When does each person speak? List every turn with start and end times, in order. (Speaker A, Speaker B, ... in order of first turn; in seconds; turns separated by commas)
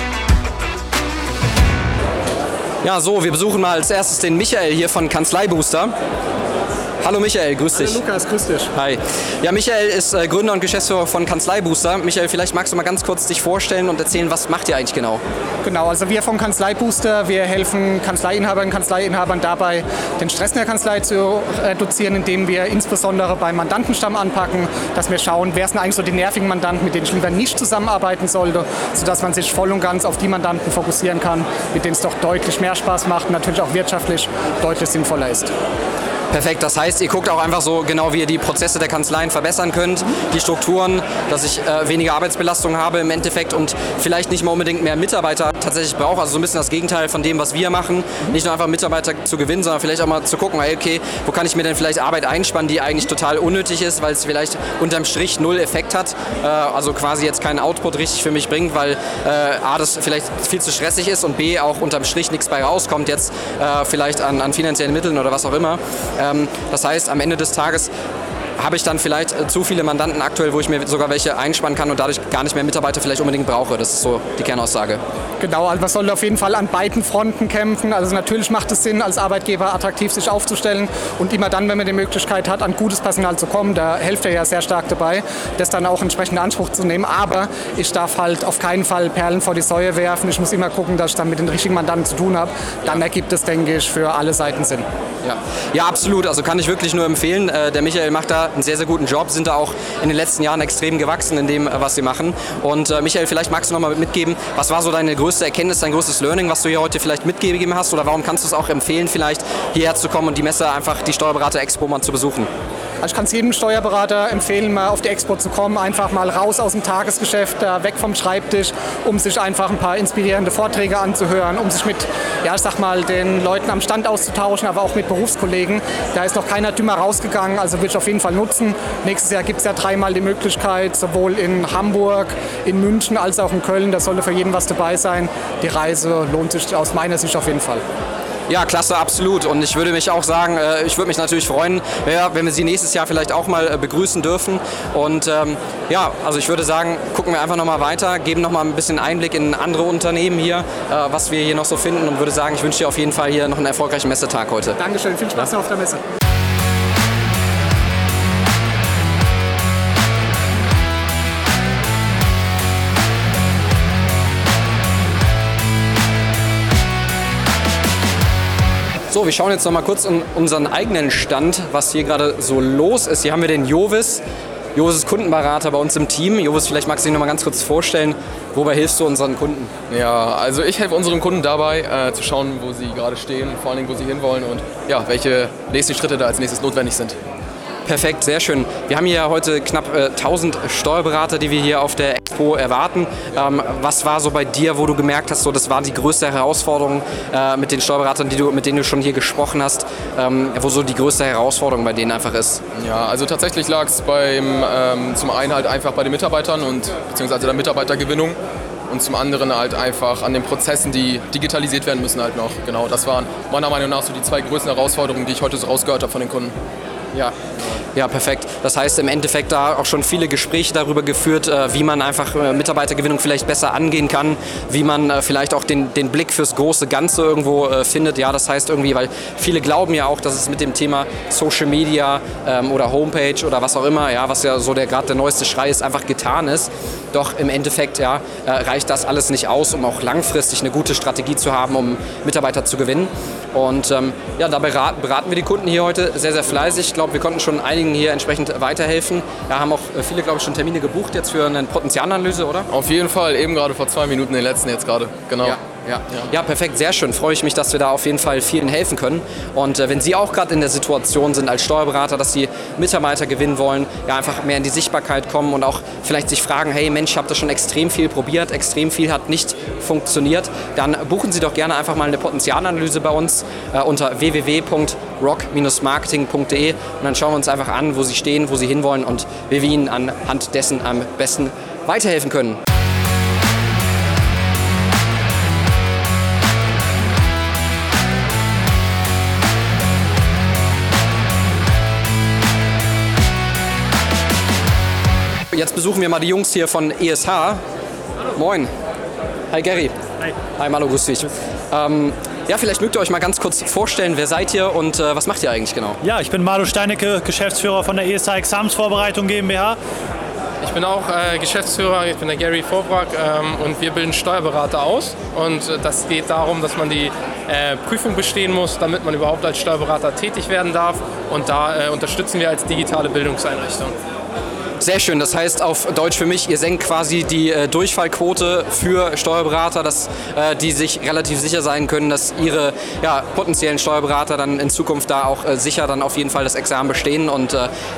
Speaker A: 2.8-5.9, Speaker A: 7.0-8.0, Speaker B: 7.7-8.7, Speaker A: 8.7-15.2, Speaker B: 15.6-35.5, Speaker A: 36.3-67.9, Speaker A: 68.6-75.0, Speaker B: 75.4-94.8, Speaker A: 95.2-112.5, Speaker B: 113.0-137.8, Speaker A: 138.5-154.8, Speaker B: 154.8-156.0, Speaker A: 169.1-174.2, Speaker A: 174.7-179.7, Speaker C: 179.9-187.2, Speaker A: 187.8-202.6, Speaker C: 202.8-208.4, Speaker C: 208.9-216.5, Speaker A: 217.9-252.7, Speaker C: 252.7-255.6, Speaker A: 255.4-282.6, Speaker A: 295.5-297.6, Speaker A: 298.3-298.7, Speaker A: 299.5-300.0, Speaker A: 300.5-306.0, Speaker D: 306.0-309.8, Speaker E: 310.6-323.9, Speaker A: 324.8-337.7